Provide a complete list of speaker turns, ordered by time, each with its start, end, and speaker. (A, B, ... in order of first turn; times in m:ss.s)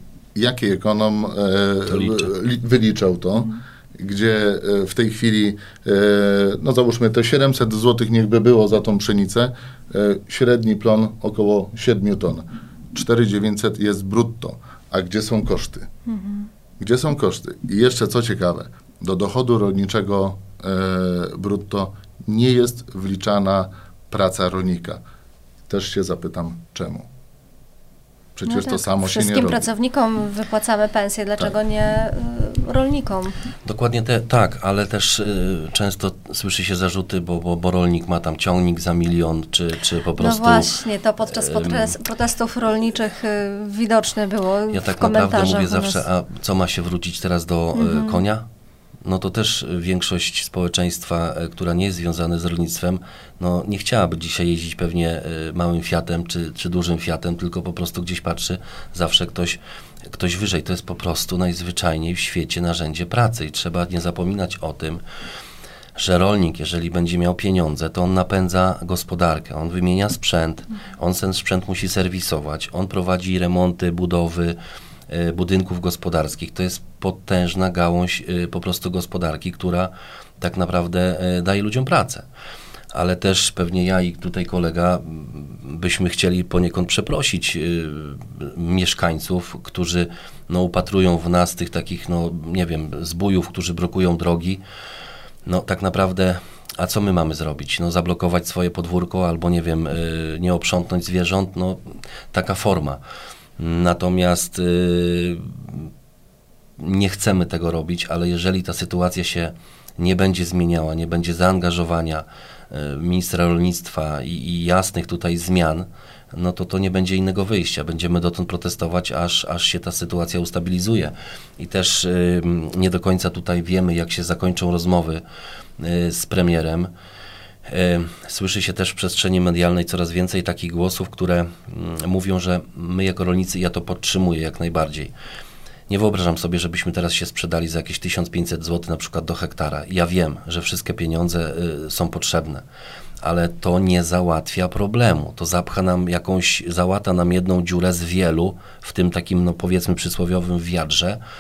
0:00.4-0:15.9 A
0:01.9-0:02.3 B
0:16.1-0:16.5 C
0:16.8-0:25.0 A
0:25.7-0:27.1 A
0:28.4-0:29.7 A
0:28.5-0:33.4 C
0:33.6-0:42.0 B
0:40.2-0:46.0 C
0:44.7-0:48.5 B
0:47.8-0:48.2 C
0:49.0-1:05.0 B
1:06.0-1:14.6 B
1:15.1-1:22.3 B
1:22.9-1:34.6 B
1:35.5-1:43.0 B
1:43.6-1:45.9 B
1:46.8-2:05.2 B
2:05.8-2:06.9 B
2:07.7-2:15.1 B
2:15.9-2:22.6 B
2:23.2-2:31.2 B